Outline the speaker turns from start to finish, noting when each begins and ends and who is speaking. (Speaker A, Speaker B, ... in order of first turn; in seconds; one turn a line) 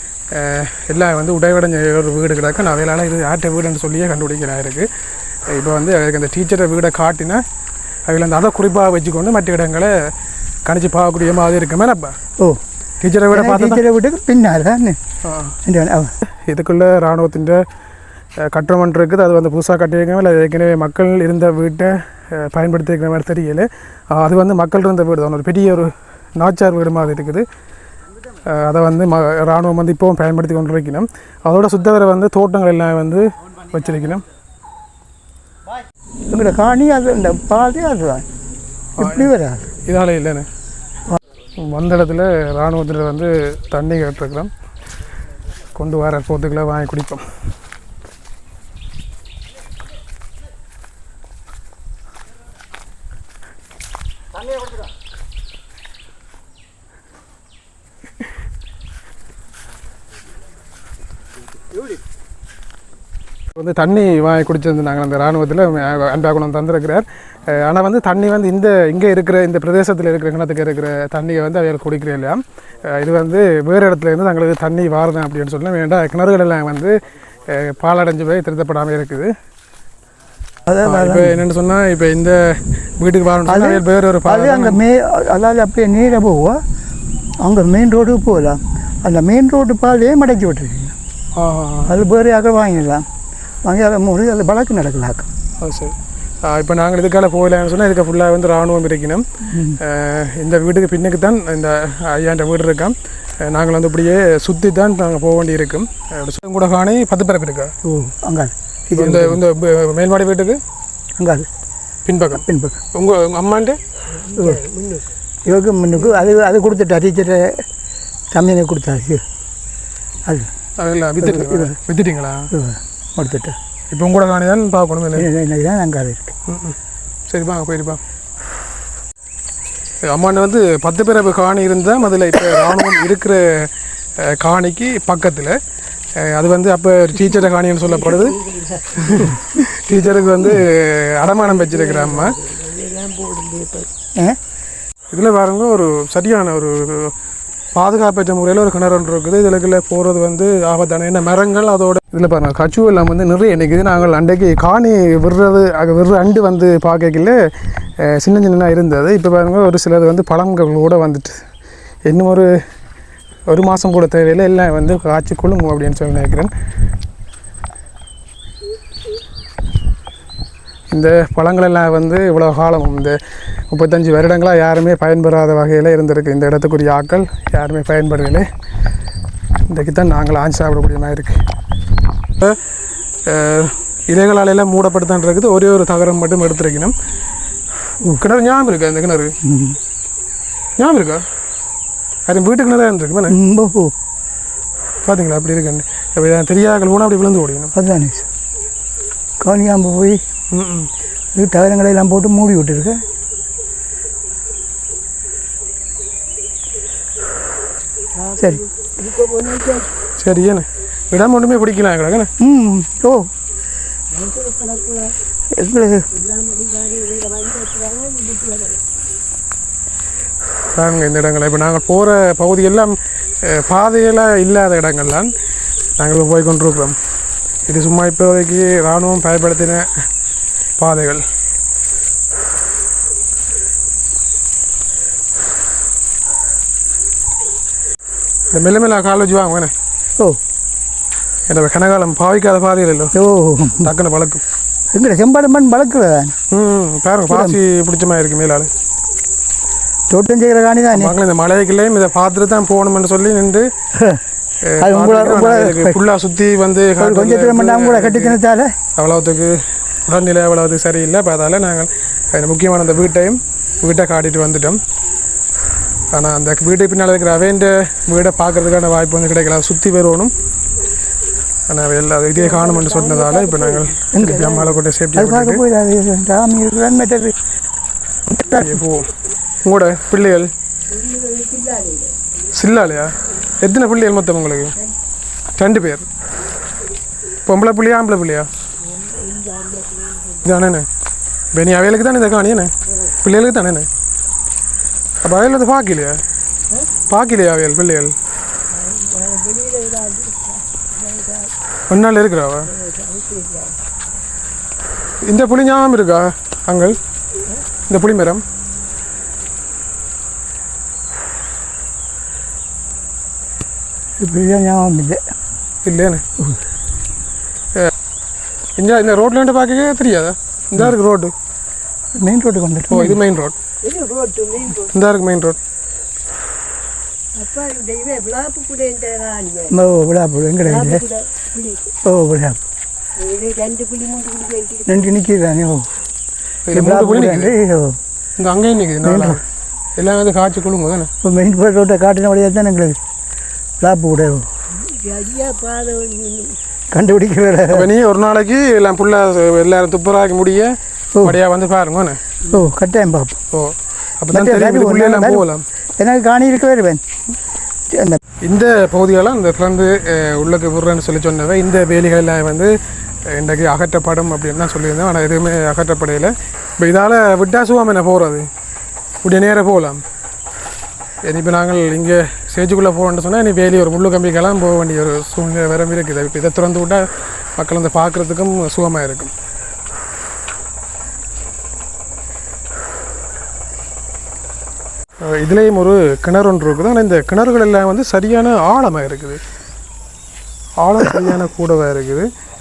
Speaker A: 0.3-4.9
Speaker A: 5.5-7.4
Speaker A: 8.1-10.1
Speaker A: 10.6-12.2
Speaker A: 13.0-13.8
Speaker B: 13.3-15.0
Speaker A: 15.2-15.6
Speaker B: 15.6-16.1
Speaker A: 16.3-17.6
Speaker A: 18.4-27.4
Speaker A: 28.4-34.2
Speaker B: 36.3-38.2
Speaker A: 39.0-39.3
Speaker B: 39.0-39.7
Speaker A: 39.8-40.5
Speaker A: 41.6-44.5
Speaker A: 45.7-47.2
Speaker A: 63.5-79.3
Speaker B: 80.7-81.4
Speaker A: 80.8-84.8
Speaker B: 83.4-86.6
Speaker B: 87.4-90.9
Speaker A: 91.3-92.0
Speaker B: 91.9-93.0
Speaker B: 93.6-95.3
Speaker A: 95.6-99.2
Speaker B: 99.5-99.8
Speaker A: 99.8-107.7
Speaker B: 107.8-109.4
Speaker A: 108.9-110.6
Speaker B: 111.2-111.5
Speaker A: 112.0-113.8
Speaker B: 112.3-112.8
Speaker C: 114.2-115.1
Speaker B: 114.3-114.6
Speaker B: 115.5-117.6
Speaker B: 118.3-119.2
Speaker A: 120.8-122.5
Speaker B: 121.2-121.8
Speaker B: 122.5-123.6
Speaker A: 123.9-125.3
Speaker B: 125.1-126.3
Speaker A: 126.5-126.8
Speaker A: 127.3-128.0
Speaker A: 130.1-135.6
Speaker A: 136.2-138.4
Speaker C: 138.0-139.2
Speaker A: 138.9-142.4
Speaker C: 141.5-143.9
Speaker A: 145.1-147.1
Speaker A: 147.7-157.4
Speaker A: 158.0-161.4
Speaker A: 162.1-162.5
Speaker A: 163.5-166.5
Speaker A: 170.9-173.2
Speaker A: 173.7-178.5
Speaker A: 179.7-181.4
Speaker A: 183.2-186.9
Speaker A: 188.1-189.4
Speaker B: 189.4-189.8
Speaker A: 190.8-191.2
Speaker A: 192.2-193.4
Speaker B: 193.3-193.9
Speaker A: 195.0-197.7
Speaker B: 197.7-198.3
Speaker B: 199.4-200.2
Speaker A: 200.5-200.9
Speaker B: 201.3-203.0
Speaker C: 208.2-209.9
Speaker B: 208.4-208.6
Speaker A: 210.2-212.3
Speaker B: 212.4-213.3
Speaker C: 214.1-215.2
Speaker B: 215.5-216.1
Speaker C: 216.1-218.8
Speaker A: 220.7-225.3
Speaker A: 226.0-227.0
Speaker A: 227.7-229.9
Speaker A: 230.8-231.2
Speaker A: 238.5-239.7
Speaker A: 241.5-243.1
Speaker B: 243.2-243.9
Speaker A: 243.8-244.4
Speaker B: 244.9-246.3
Speaker A: 246.5-248.7
Speaker B: 247.3-247.6
Speaker B: 250.1-251.1
Speaker A: 250.9-253.7
Speaker B: 253.9-254.2
Speaker A: 254.6-258.4
Speaker B: 254.8-256.0
Speaker B: 257.0-258.7
Speaker A: 258.9-264.8
Speaker A: 266.1-270.3
Speaker A: 271.7-275.6
Speaker C: 272.4-273.9
Speaker B: 274.1-277.3
Speaker B: 278.3-278.8
Speaker A: 278.4-280.5
Speaker C: 280.9-282.2
Speaker A: 282.5-284.8
Speaker A: 285.6-286.1
Speaker A: 287.4-288.5
Speaker C: 288.9-290.4
Speaker A: 290.4-290.9
Speaker A: 291.5-293.9
Speaker A: 295.2-296.2
Speaker A: 297.1-298.1
Speaker C: 298.7-301.5
Speaker A: 301.9-302.7
Speaker C: 302.7-303.8
Speaker A: 305.2-307.0
Speaker A: 307.9-308.4
Speaker B: 314.2-315.2
Speaker A: 315.8-316.2
Speaker A: 318.8-321.3
Speaker B: 322.1-323.2
Speaker A: 322.9-323.5
Speaker C: 323.8-324.9
Speaker A: 324.8-325.6
Speaker C: 327.4-329.8
Speaker B: 329.7-331.0
Speaker C: 330.6-331.9
Speaker B: 332.0-332.6
Speaker C: 333.2-335.1
Speaker B: 334.9-335.9
Speaker A: 336.6-337.5
Speaker B: 336.7-338.0
Speaker A: 338.4-339.4
Speaker B: 339.0-339.4
Speaker A: 340.0-341.1
Speaker B: 341.2-343.0
Speaker B: 343.8-344.5
Speaker C: 344.8-346.6
Speaker B: 346.9-347.9
Speaker A: 347.7-352.2
Speaker B: 352.5-353.4
Speaker A: 353.5-355.6
Speaker B: 354.3-355.4
Speaker B: 356.0-357.0
Speaker B: 357.9-358.2
Speaker A: 358.4-362.7
Speaker A: 363.3-368.5
Speaker A: 369.2-370.0
Speaker A: 371.2-379.3
Speaker A: 385.2-389.4
Speaker A: 390.8-392.3